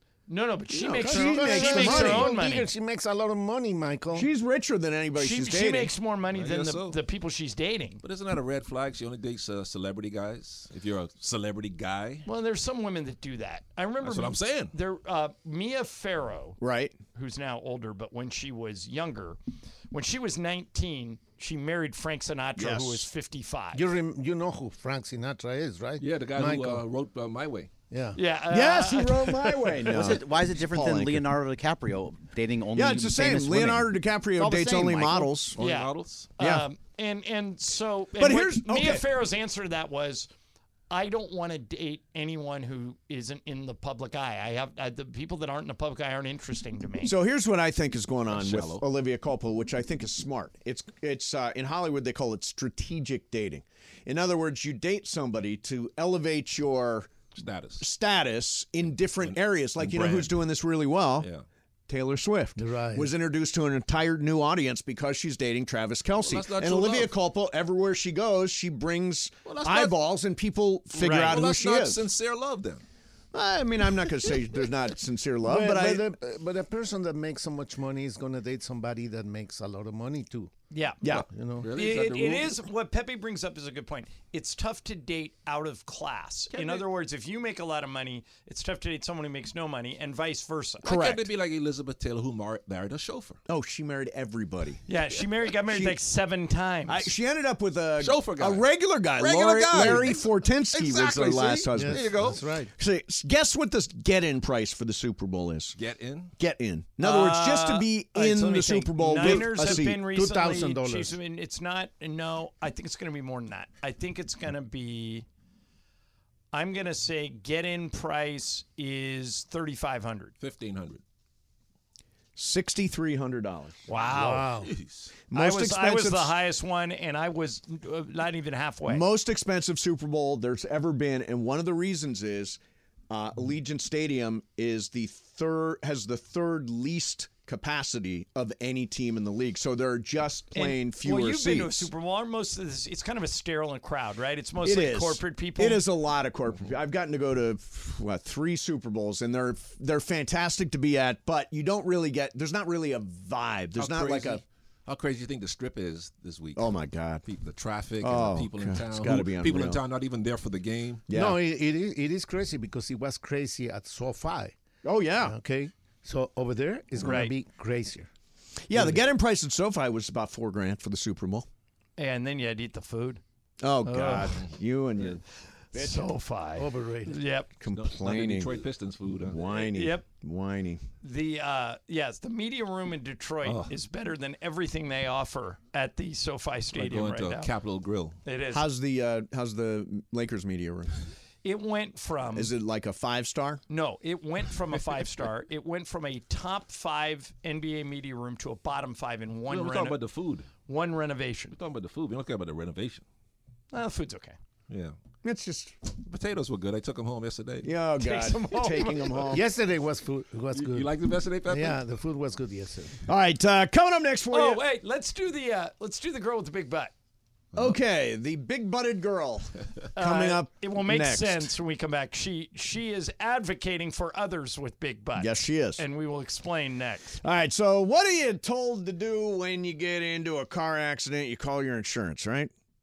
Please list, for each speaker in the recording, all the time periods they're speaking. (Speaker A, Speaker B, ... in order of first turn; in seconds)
Speaker A: 0.3-2.7, 5.2-8.0, 12.2-16.6, 17.1-19.4, 19.9-23.8, 28.1-29.9, 35.6-40.3, 40.9-47.1, 71.0-71.4, 80.7-81.0, 81.7-90.8, 94.9-97.1, 107.0-115.2, 116.5-120.3, 123.9-124.5, 125.3-129.0, 140.5-145.8, 167.0-167.3, 172.0-173.2, 173.8-174.3, 175.7-177.5, 179.5-180.0, 181.0-187.5, 188.2-188.6, 191.4-192.5, 193.7-200.0, 200.7-201.6, 203.7-204.3, 208.0-209.3, 214.3-216.9, 219.9-227.2
Speaker B: 0.7-2.3, 4.1-5.9, 16.6-16.9, 22.6-23.1, 28.5-31.3, 32.7-35.6, 36.4-36.6, 38.2-39.0, 47.0-57.1, 57.8-61.3, 61.9-72.0, 73.3-76.1, 90.8-91.3, 93.5-94.8, 95.7-96.0, 96.9-105.8, 106.4-110.0, 122.3-123.8, 125.3-126.3, 128.8-141.9, 144.6-154.4, 156.6-157.2, 158.0-159.8, 161.1-161.4, 164.8-165.3, 168.7-171.5, 173.6-175.2, 175.7-176.0, 177.6-178.6, 179.2-180.8, 188.5-190.9, 192.3-193.6, 205.2-205.7, 207.6-209.5, 213.1-214.6, 217.5-221.5, 225.2-225.8, 227.2-232.5
Speaker C: 1.0-4.3, 23.7-26.8, 27.9-28.2, 62.5-63.1, 75.4-80.5, 81.3-81.7, 99.8-100.1, 101.7-102.7, 109.2-111.2, 124.0-124.7, 161.1-164.6, 165.2-168.1, 168.7-169.0, 176.6-177.2, 209.2-210.9, 211.4-213.0
Speaker D: 6.3-7.0, 8.0-12.2, 14.0-14.7, 26.0-27.7, 35.5-36.3, 48.3-48.8, 57.3-57.8, 59.2-60.4, 61.2-61.4, 66.2-67.1, 69.5-70.0, 71.0-72.8, 81.6-82.6, 90.8-93.4, 98.0-102.4, 105.8-106.3, 120.4-121.0, 124.6-125.1, 153.8-156.7, 157.2-161.0, 177.7-179.4, 183.4-183.7, 186.7-188.2, 199.5-200.5, 201.5-203.0, 204.7-204.9, 206.0-207.7, 210.5-211.8
Speaker E: 29.9-35.3